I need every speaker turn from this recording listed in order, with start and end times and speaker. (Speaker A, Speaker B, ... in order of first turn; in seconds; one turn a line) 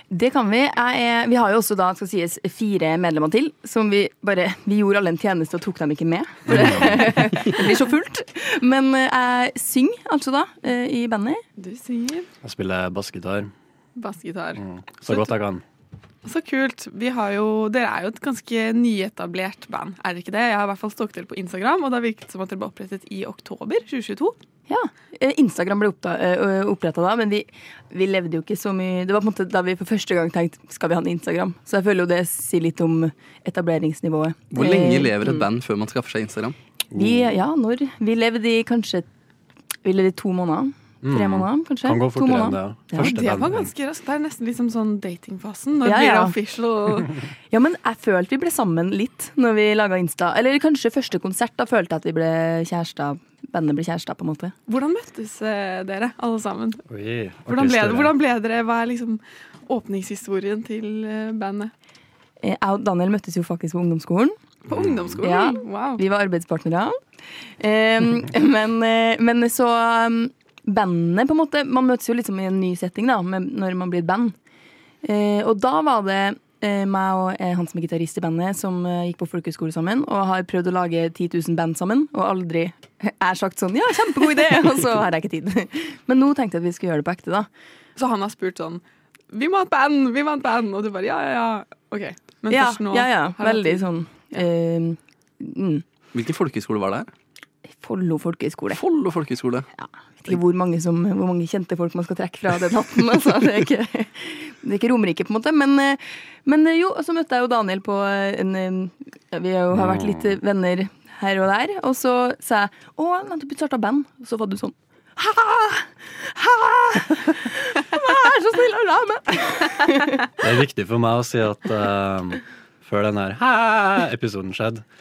Speaker A: 0.1-11.4
Speaker B: 6.5-7.0
Speaker C: 11.6-12.3
Speaker B: 12.4-13.5
Speaker C: 13.9-15.3
Speaker B: 14.6-15.6
Speaker C: 16.2-24.4
Speaker A: 24.7-35.4
Speaker D: 34.5-36.6
Speaker B: 36.9-37.3
Speaker A: 36.9-39.1
Speaker A: 39.8-43.1
Speaker B: 41.0-43.7
Speaker C: 43.0-47.2
Speaker A: 45.8-46.3
Speaker A: 47.5-54.5
Speaker C: 54.7-56.8
Speaker B: 56.9-58.1
Speaker C: 57.5-61.7
Speaker A: 62.4-64.3
Speaker C: 64.6-66.0
Speaker B: 64.7-65.2
Speaker A: 65.2-67.0
Speaker A: 67.6-74.3
Speaker A: 75.0-87.5
Speaker C: 88.0-93.8
Speaker A: 92.5-95.8
Speaker D: 96.1-97.1
Speaker A: 97.7-98.8
Speaker D: 98.7-99.7
Speaker A: 99.8-120.3
Speaker B: 109.7-110.3
Speaker B: 120.4-124.8